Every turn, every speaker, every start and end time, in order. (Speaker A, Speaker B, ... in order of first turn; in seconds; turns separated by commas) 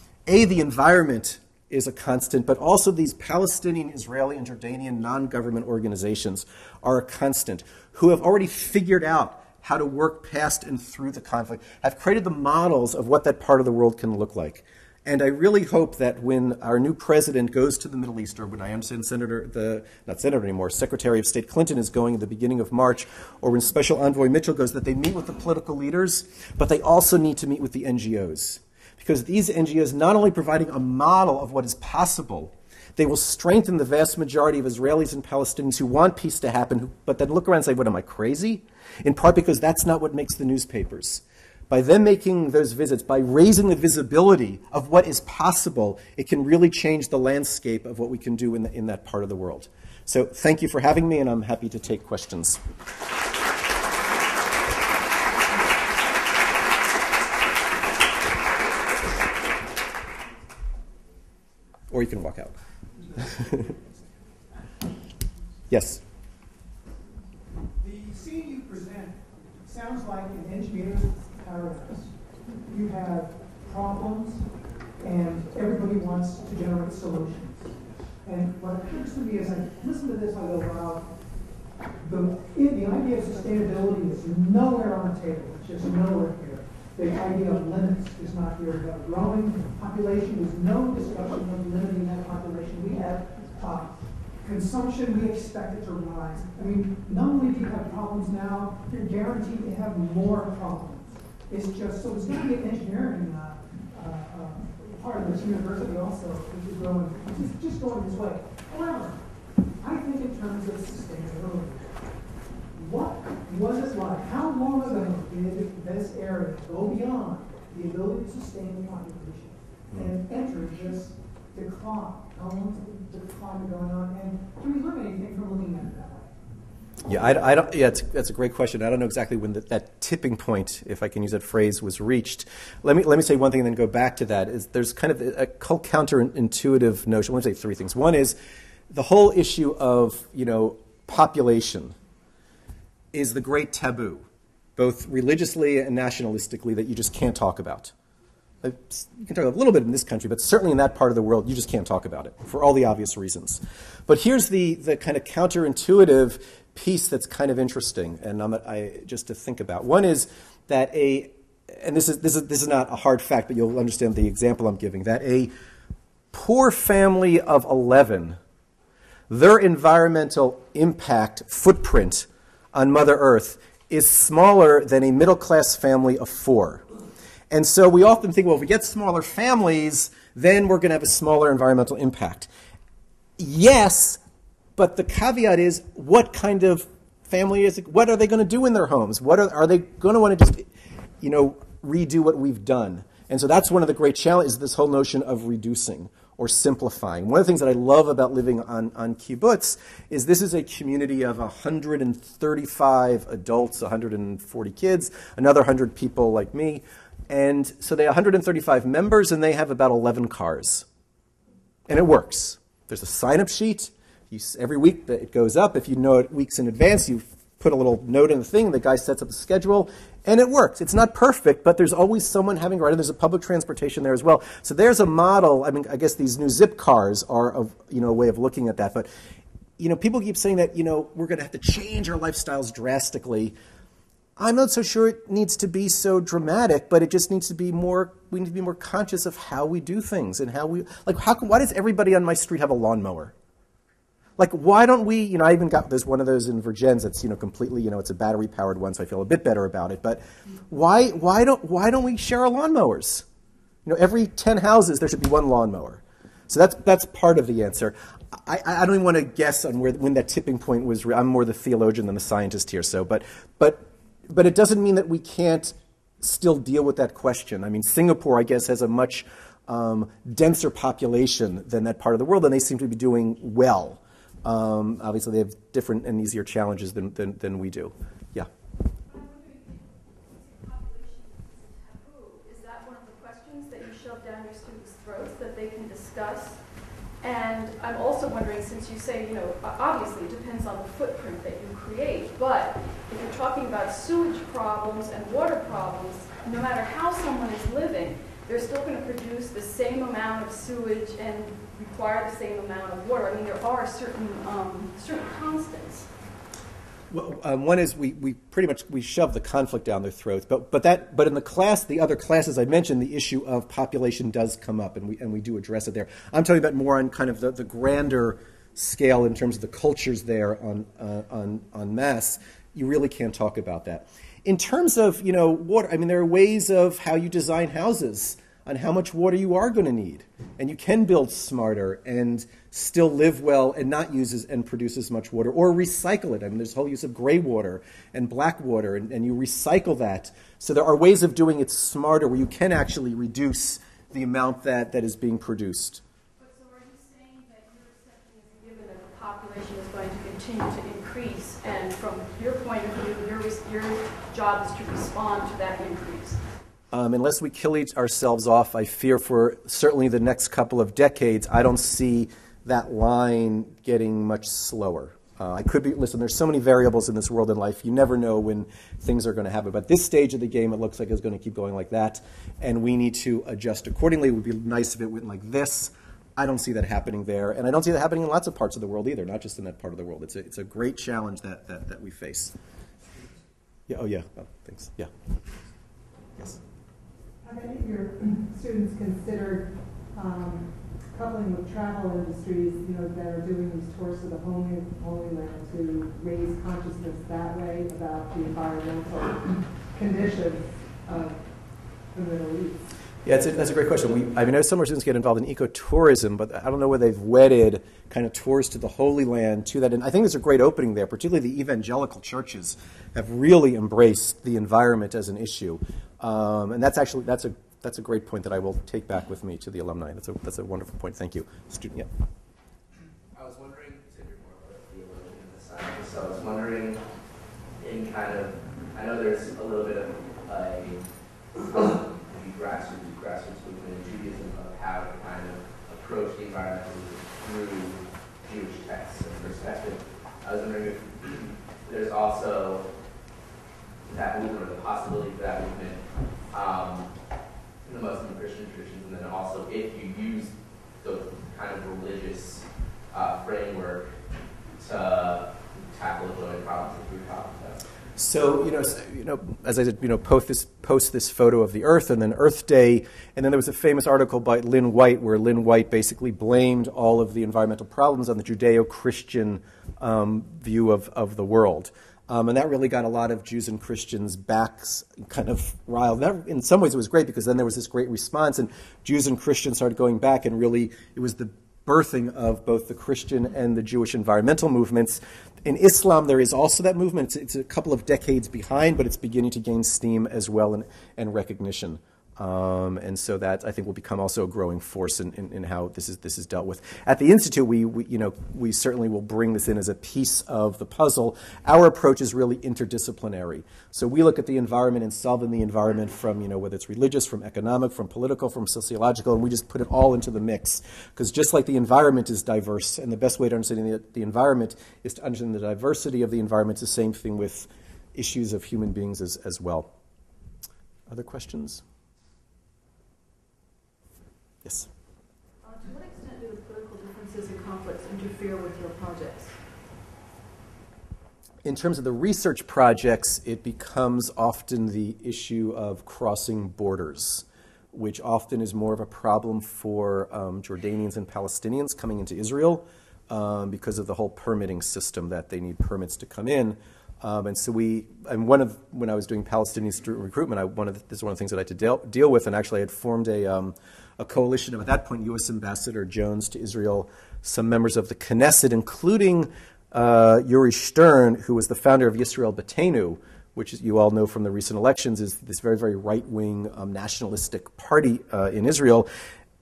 Speaker A: 0.3-52.6, Speaker A: 61.9-62.5, Speaker A: 63.2-63.7, Speaker A: 65.7-66.0, Speaker B: 67.8-74.5, Speaker B: 75.0-81.1, Speaker B: 82.0-109.3, Speaker B: 109.8-112.0, Speaker B: 112.8-126.3, Speaker A: 127.0-138.4, Speaker A: 138.9-141.9, Speaker A: 143.1-144.2, Speaker A: 144.8-147.9, Speaker A: 148.6-165.5, Speaker A: 166.3-168.4, Speaker A: 169.3-176.8, Speaker A: 177.5-182.5, Speaker A: 183.4-184.2, Speaker A: 184.8-190.7, Speaker A: 191.2-210.9, Speaker A: 211.9-229.1, Speaker A: 229.8-233.6, Speaker A: 234.4-243.3, Speaker A: 244.4-253.2, Speaker A: 253.8-278.5, Speaker C: 279.1-306.1, Speaker A: 307.1-346.0, Speaker C: 346.4-356.4, Speaker A: 356.9-382.6, Speaker A: 383.9-385.1, Speaker B: 387.5-388.1, Speaker D: 388.1-389.6, Speaker B: 388.9-389.6, Speaker D: 390.2-390.5, Speaker B: 390.2-390.5, Speaker D: 391.1-399.3, Speaker B: 391.2-398.3, Speaker B: 398.8-399.1, Speaker B: 400.0-400.4, Speaker D: 400.0-400.6, Speaker B: 402.2-402.7, Speaker A: 403.2-422.1, Speaker E: 423.3-427.0, Speaker E: 427.8-431.0, Speaker E: 431.6-442.9, Speaker E: 444.1-447.1, Speaker E: 447.8-454.1, Speaker E: 454.8-457.8, Speaker A: 458.2-519.9, Speaker A: 521.1-521.8, Speaker A: 524.6-524.9, Speaker C: 525.6-529.5, Speaker A: 531.6-569.1